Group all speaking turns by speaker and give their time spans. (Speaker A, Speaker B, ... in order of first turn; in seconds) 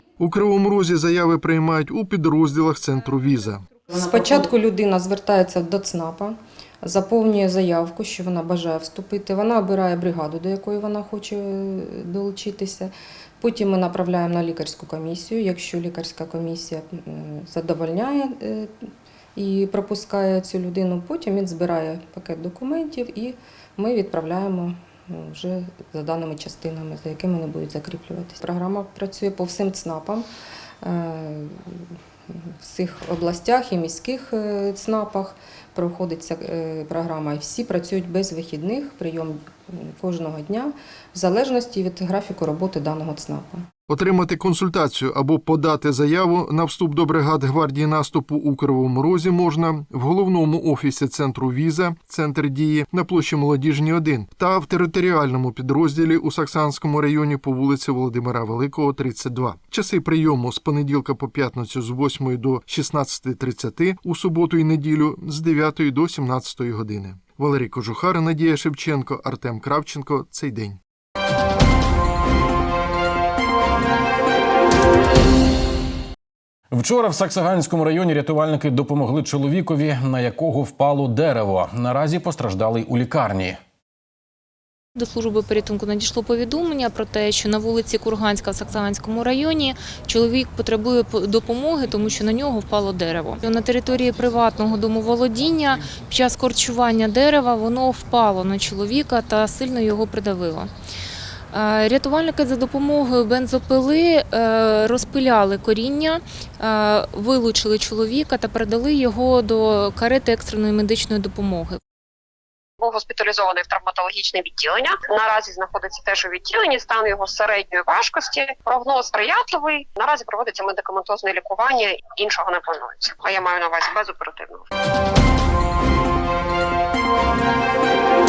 Speaker A: 0.2-3.7, 43.9-70.8
Speaker B: 3.9-30.3, 30.8-43.7
Speaker C: 76.7-83.6
Speaker D: 85.0-100.7, 101.5-111.8
Speaker E: 112.8-124.7